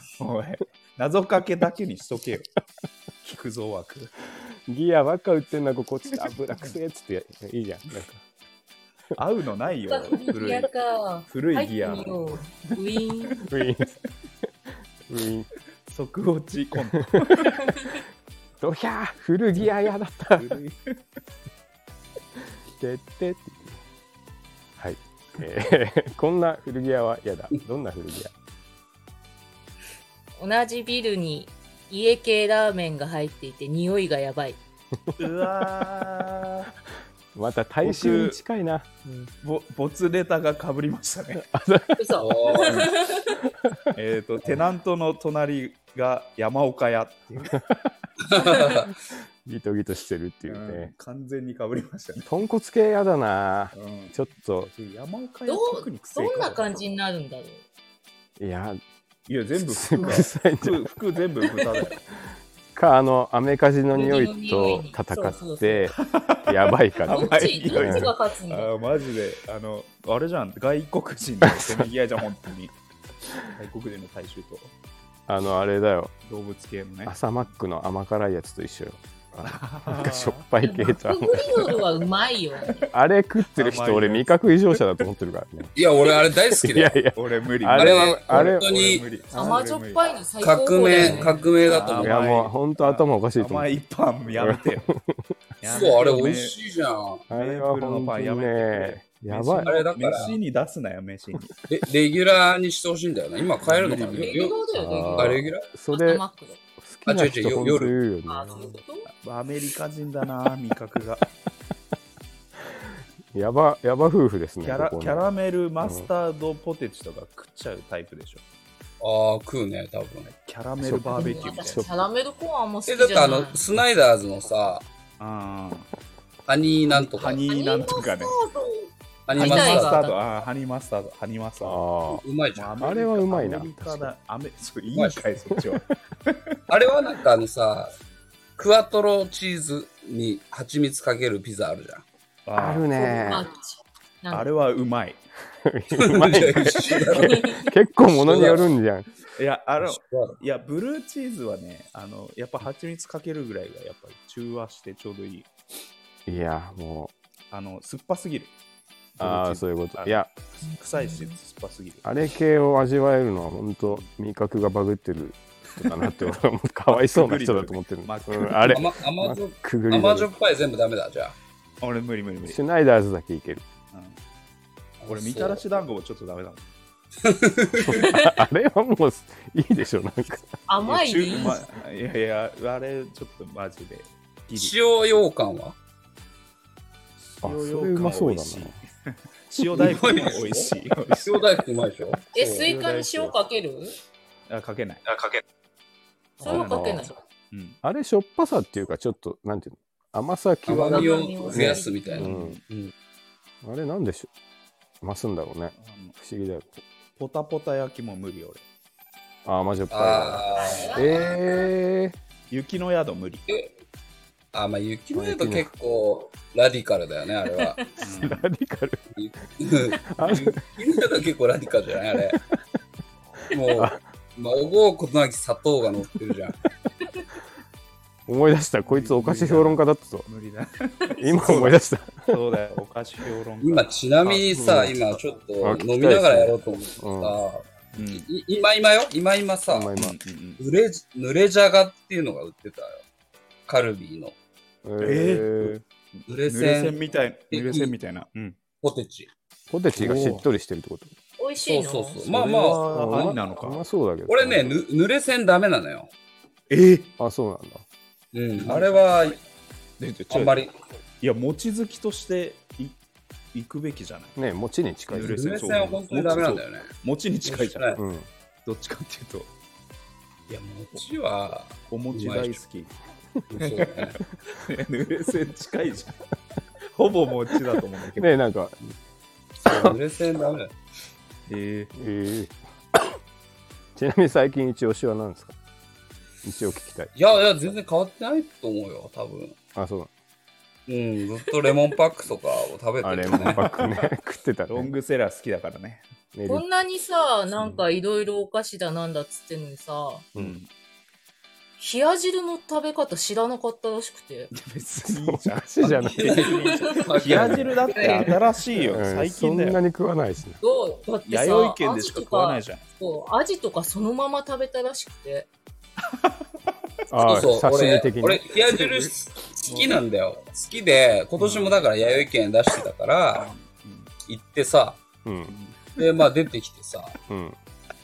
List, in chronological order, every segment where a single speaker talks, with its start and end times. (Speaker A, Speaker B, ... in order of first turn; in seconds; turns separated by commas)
Speaker A: 0.2-2.5, Speaker A: 3.2-4.1, Speaker B: 4.7-8.2, Speaker A: 6.2-6.8, Speaker A: 9.1-10.7, Speaker C: 9.9-13.4, Speaker A: 11.3-13.4, Speaker B: 13.5-13.9, Speaker B: 15.1-15.5, Speaker A: 15.9-17.7, Speaker B: 16.9-17.6, Speaker B: 18.6-20.6, Speaker A: 20.4-20.8, Speaker B: 22.4-23.8, Speaker B: 24.8-28.3, Speaker C: 30.4-34.6, Speaker A: 35.2-36.7, Speaker B: 37.4-39.3, Speaker A: 37.8-38.4, Speaker A: 39.4-41.4, Speaker B: 41.4-42.0, Speaker C: 42.0-43.4, Speaker D: 42.2-42.9, Speaker B: 43.4-43.9, Speaker A: 43.9-47.6, Speaker D: 48.2-48.9, Speaker C: 48.4-48.6, Speaker B: 49.4-50.9, Speaker A: 50.5-52.3, Speaker B: 52.2-54.7, Speaker A: 53.7-56.6, Speaker C: 55.5-57.6, Speaker B: 58.4-58.8, Speaker A: 59.3-62.0, Speaker B: 59.7-60.9, Speaker B: 62.7-68.1, Speaker C: 63.9-65.9, Speaker A: 66.0-72.7, Speaker C: 67.0-68.7, Speaker B: 71.4-71.9, Speaker A: 73.5-74.7, Speaker B: 75.3-76.1, Speaker A: 76.2-77.2, Speaker B: 77.1-81.7, Speaker A: 79.4-80.5, Speaker C: 80.6-82.8, Speaker B: 82.9-85.8, Speaker A: 83.5-84.3, Speaker D: 85.8-87.0, Speaker B: 86.6-88.7, Speaker A: 87.1-90.1, Speaker D: 87.8-89.1, Speaker C: 89.3-91.5, Speaker B: 89.3-89.6, Speaker D: 90.4-92.2, Speaker B: 91.0-91.3, Speaker A: 91.0-94.9, Speaker B: 91.9-93.7, Speaker B: 94.3-95.0, Speaker A: 95.6-96.6, Speaker D: 95.6-97.2, Speaker B: 97.3-100.3, Speaker A: 97.3-101.5, Speaker D: 99.6-100.3, Speaker D: 101.7-104.6, Speaker A: 103.6-104.5, Speaker C: 104.2-106.6, Speaker B: 104.7-106.2, Speaker D: 105.1-105.6, Speaker B: 106.8-108.8, Speaker D: 107.1-108.0, Speaker C: 108.3-109.1, Speaker A: 109.2-111.3, Speaker B: 113.3-115.2, Speaker A: 114.6-118.4, Speaker B: 115.8-116.1, Speaker D: 119.0-120.3, Speaker A: 120.4-121.8, Speaker B: 120.8-121.9, Speaker C: 121.1-123.6, Speaker D: 122.9-124.8, Speaker A: 125.2-125.9, Speaker D: 126.5-127.4, Speaker A: 126.9-128.4, Speaker C: 127.5-130.2, Speaker D: 129.3-130.1, Speaker A: 129.3-131.8, Speaker B: 131.6-132.2, Speaker D: 132.1-132.8, Speaker A: 132.6-136.5, Speaker B: 132.8-134.1, Speaker D: 134.9-135.2, Speaker D: 136.7-137.9, Speaker D: 138.6-142.0, Speaker A: 142.5-142.9, Speaker B: 142.6-143.5, Speaker C: 142.9-144.5, Speaker A: 144.3-145.2, Speaker B: 145.6-149.1, Speaker D: 145.9-147.4, Speaker C: 147.1-147.6, Speaker D: 148.1-148.7, Speaker A: 148.3-148.6, Speaker A: 149.3-155.5, Speaker D: 149.8-150.4, Speaker B: 156.2-157.1, Speaker A: 157.5-158.5, Speaker A: 159.2-162.1, Speaker B: 159.2-160.3, Speaker B: 162.0-170.3, Speaker A: 166.9-168.8, Speaker D: 168.7-171.3, Speaker A: 171.8-172.6, Speaker B: 172.5-173.6, Speaker A: 173.9-174.2, Speaker D: 175.0-175.6, Speaker A: 175.1-176.6, Speaker D: 177.2-178.1, Speaker B: 177.8-180.6, Speaker C: 177.9-178.2, Speaker C: 180.7-181.6, Speaker A: 180.8-184.8, Speaker D: 184.5-185.8, Speaker A: 187.2-191.4, Speaker B: 187.4-188.8, Speaker D: 189.7-192.7, Speaker C: 192.3-193.9, Speaker B: 192.5-193.3, Speaker A: 194.5-195.4, Speaker B: 196.4-197.1, Speaker C: 196.4-197.1, Speaker A: 196.4-197.8, Speaker B: 197.8-202.6, Speaker D: 200.7-202.9, Speaker C: 200.9-202.2, Speaker A: 202.2-202.6, Speaker B: 203.6-204.3, Speaker B: 205.0-206.8, Speaker A: 205.8-206.1, Speaker A: 207.2-208.6, Speaker B: 209.4-212.1, Speaker D: 209.9-210.9, Speaker C: 210.5-211.7, Speaker A: 212.5-213.4, Speaker D: 214.5-217.8, Speaker B: 215.1-215.7, Speaker A: 218.0-218.5, Speaker B: 218.2-219.0, Speaker D: 219.2-222.4, Speaker B: 220.1-220.6, Speaker D: 223.5-226.6, Speaker B: 223.7-224.0, Speaker B: 228.3-230.3, Speaker A: 228.8-234.5, Speaker B: 231.2-232.4, Speaker D: 233.6-239.9, Speaker B: 234.5-234.9, Speaker B: 235.6-237.3, Speaker A: 238.0-238.2, Speaker B: 239.7-240.2, Speaker A: 240.0-240.6, Speaker D: 240.6-243.0, Speaker D: 243.7-244.3, Speaker B: 244.8-245.8, Speaker A: 245.0-248.6, Speaker D: 246.3-247.0, Speaker D: 247.5-247.9, Speaker D: 248.8-249.3, Speaker B: 249.7-251.1, Speaker A: 250.0-250.4, Speaker C: 251.4-252.2, Speaker D: 251.6-253.3, Speaker A: 252.3-253.8, Speaker B: 252.4-254.8, Speaker D: 254.3-256.1, Speaker A: 256.7-257.1, Speaker B: 257.2-257.9, Speaker D: 258.3-259.4, Speaker A: 258.6-259.0, Speaker A: 260.0-260.7, Speaker D: 260.3-260.8, Speaker A: 261.2-263.0, Speaker A: 263.5-264.4, Speaker B: 264.4-266.0, Speaker A: 265.1-267.9, Speaker D: 265.1-266.9, Speaker D: 267.4-268.0, Speaker B: 268.0-268.3, Speaker A: 268.6-269.5, Speaker D: 270.5-272.6, Speaker A: 271.9-272.9, Speaker D: 273.5-274.2, Speaker A: 273.6-276.2, Speaker A: 276.9-278.3, Speaker B: 278.1-278.8, Speaker B: 279.6-280.0, Speaker D: 279.6-280.7, Speaker A: 281.5-281.9, Speaker B: 281.9-283.1, Speaker B: 284.0-285.5, Speaker B: 286.4-287.1, Speaker D: 287.1-289.6, Speaker B: 289.8-290.1, Speaker D: 290.9-293.8, Speaker B: 293.0-294.9, Speaker A: 293.4-294.1, Speaker A: 294.7-296.0, Speaker B: 296.3-296.6, Speaker C: 296.5-300.2, Speaker A: 300.4-300.7, Speaker C: 301.8-304.5, Speaker A: 304.5-309.8, Speaker B: 305.0-306.5, Speaker D: 305.9-308.3, Speaker C: 306.5-307.2, Speaker B: 307.3-310.6, Speaker C: 310.6-315.5, Speaker A: 311.3-312.8, Speaker B: 317.1-318.5, Speaker D: 317.2-323.5, Speaker A: 318.7-319.1, Speaker A: 319.7-320.0, Speaker A: 321.4-321.8, Speaker A: 323.3-324.1, Speaker D: 324.2-325.0, Speaker B: 325.2-325.5, Speaker A: 325.5-326.0, Speaker D: 326.0-327.1, Speaker B: 327.3-327.6